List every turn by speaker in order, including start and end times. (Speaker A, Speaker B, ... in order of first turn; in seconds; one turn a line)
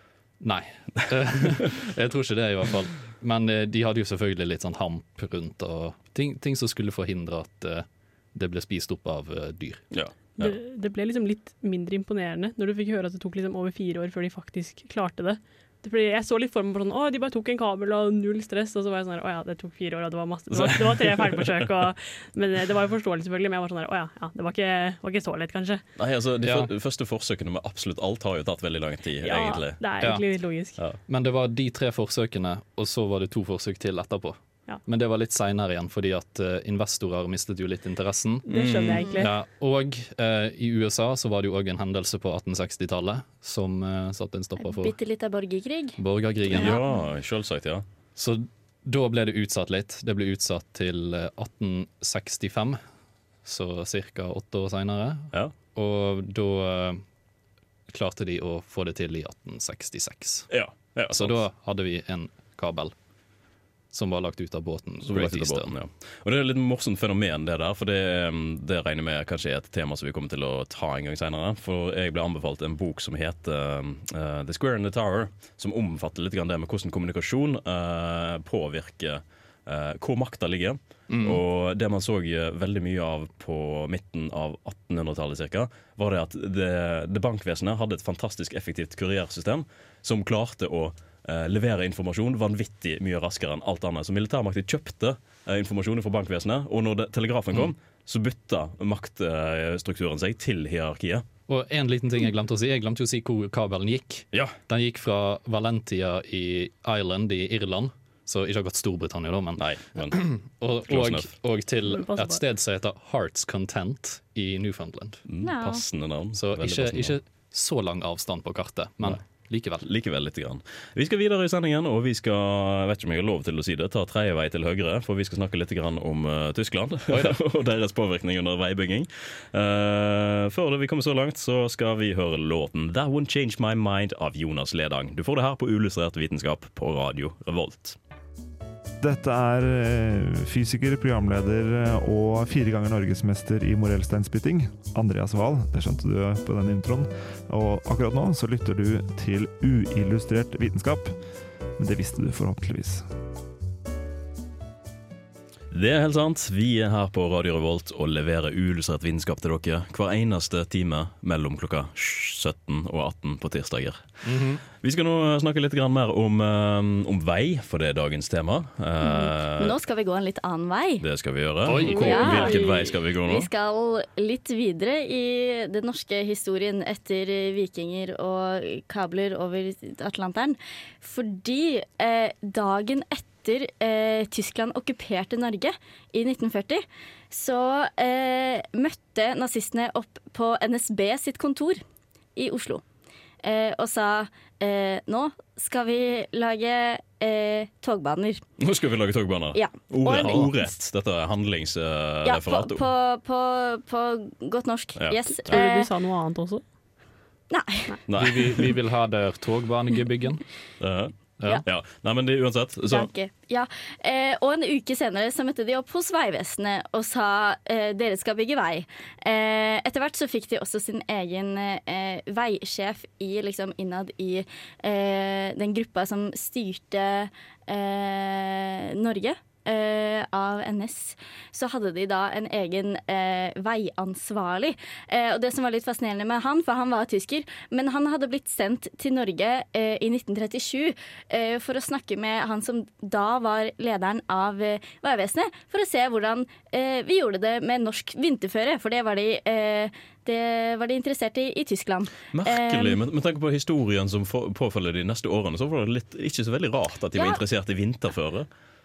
Speaker A: 0.4-9.8
Speaker B: 9.9-10.6
Speaker C: 10.4-25.8
Speaker B: 20.5-21.7
Speaker B: 26.0-29.8
Speaker A: 26.4-26.7
Speaker C: 29.2-30.8
Speaker A: 31.1-38.5
Speaker C: 38.5-39.3
Speaker B: 38.5-39.1
Speaker A: 39.2-44.9
Speaker D: 44.6-46.0
Speaker A: 46.0-46.8
Speaker B: 46.5-47.8
Speaker D: 46.5-46.8
Speaker A: 48.1-52.8
Speaker A: 53.4-57.0
Speaker A: 57.9-60.5
Speaker B: 60.5-61.4
Speaker A: 61.1-62.9
Speaker A: 63.9-65.7
Speaker B: 65.0-101.2
Speaker A: 81.1-81.4
Speaker A: 101.5-115.2
Speaker B: 109.6-110.3
Speaker B: 110.9-111.3
Speaker C: 111.9-112.4
Speaker B: 115.3-117.2
Speaker D: 115.4-115.8
Speaker A: 116.3-119.8
Speaker B: 119.8-138.0
Speaker A: 127.1-127.3
Speaker E: 139.0-151.1
Speaker E: 151.8-153.0
Speaker B: 155.7-164.1
Speaker A: 164.2-164.6
Speaker B: 164.8-169.8
Speaker D: 169.0-171.0
Speaker B: 171.0-173.5
Speaker A: 171.7-172.5
Speaker D: 171.8-191.8
Speaker D: 192.3-192.8
Speaker D: 193.4-198.4
Speaker B: 198.6-202.8
Speaker D: 199.5-200.6
Speaker A: 200.1-200.5
Speaker D: 202.2-205.9
Speaker B: 205.0-205.6
Speaker C: 205.4-206.6
Speaker D: 207.5-208.0
Speaker B: 208.1-208.7
Speaker A: 208.2-210.4
Speaker B: 210.8-213.1
Speaker A: 211.4-211.6
Speaker D: 212.9-253.0
Speaker B: 252.3-258.5
Speaker D: 257.1-257.4